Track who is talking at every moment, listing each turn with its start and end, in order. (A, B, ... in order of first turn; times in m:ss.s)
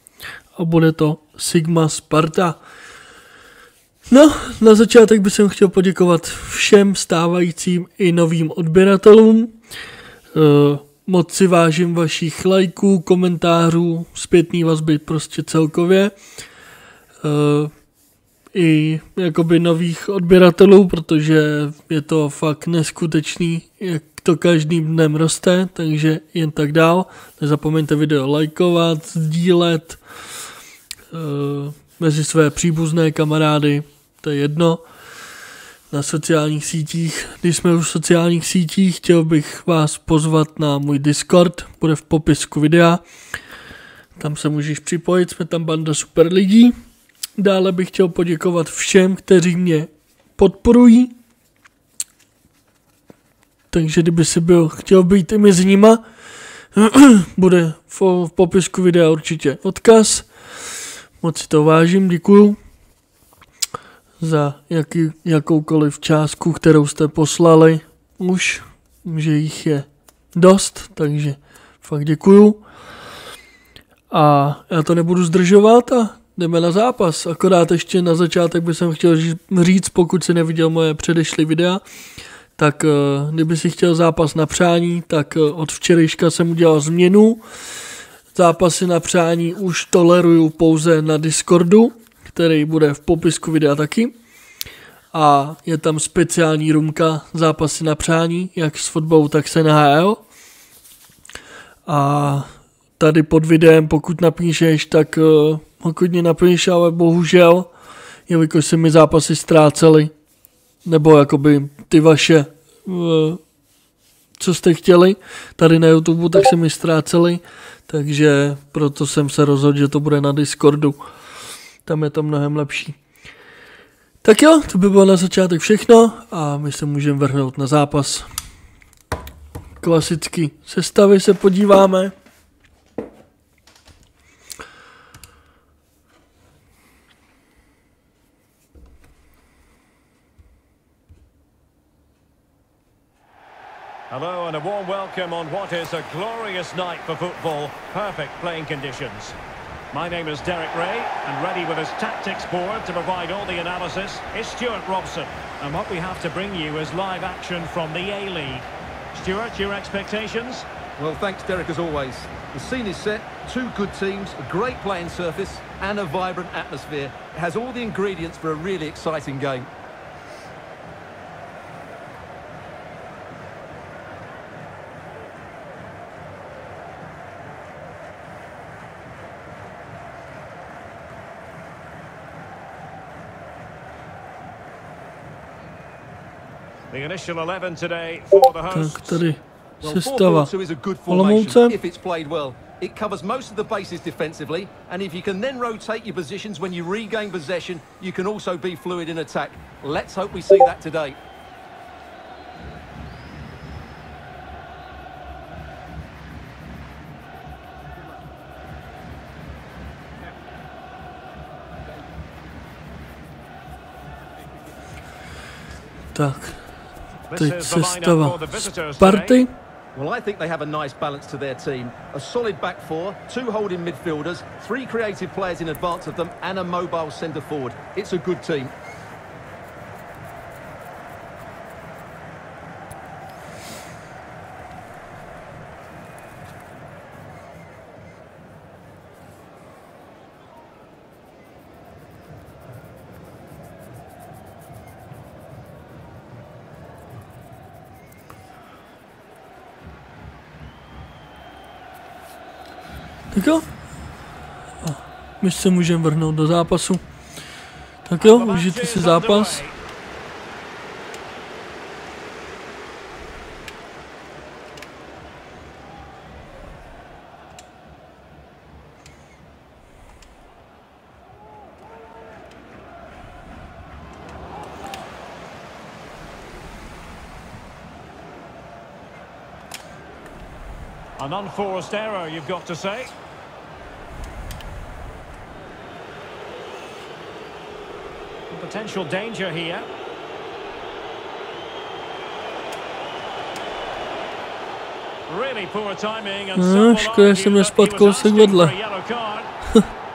0:00.6-0:02.6 A
0:04.1-0:09.6 A
0:10.3-0:16.2 A
0:17.2-0:17.7 A
0:18.5-0:30.0 A
0:31.1-0:34.8 A
0:35.9-0:43.0 A
0:44.2-0:46.8 A
0:47.4-0:51.1 A
0:53.7-0:56.0 A
0:56.7-1:02.6 A
1:04.2-1:12.6 A
1:14.1-1:21.8 A
1:22.6-1:27.5 A
1:28.3-1:34.2 A
1:35.1-1:40.2 A
1:41.9-1:47.7 A
1:48.3-1:50.1 A
1:50.8-1:53.4 A
1:54.4-2:01.1 A
2:01.8-2:03.0 A
2:04.2-2:08.3 A
2:09.8-2:12.2 A
2:24.1-2:29.4 B
2:29.9-2:40.7 B
2:41.0-2:49.7 C
3:06.9-3:09.2 B
3:08.7-3:10.5 A
3:09.8-3:21.2 C
3:11.1-3:11.8 A
3:36.1-3:36.7 A
3:37.3-3:39.4 B
3:37.4-3:39.5 A
3:40.0-3:48.7 C
4:13.3-4:13.7 A
4:14.8-4:17.0 A
4:18.0-4:19.6 A
4:18.2-4:19.8 B
4:41.2-4:43.1 B
4:48.5-4:49.9 B
4:55.3-4:59.5 B
4:56.6-4:58.8 A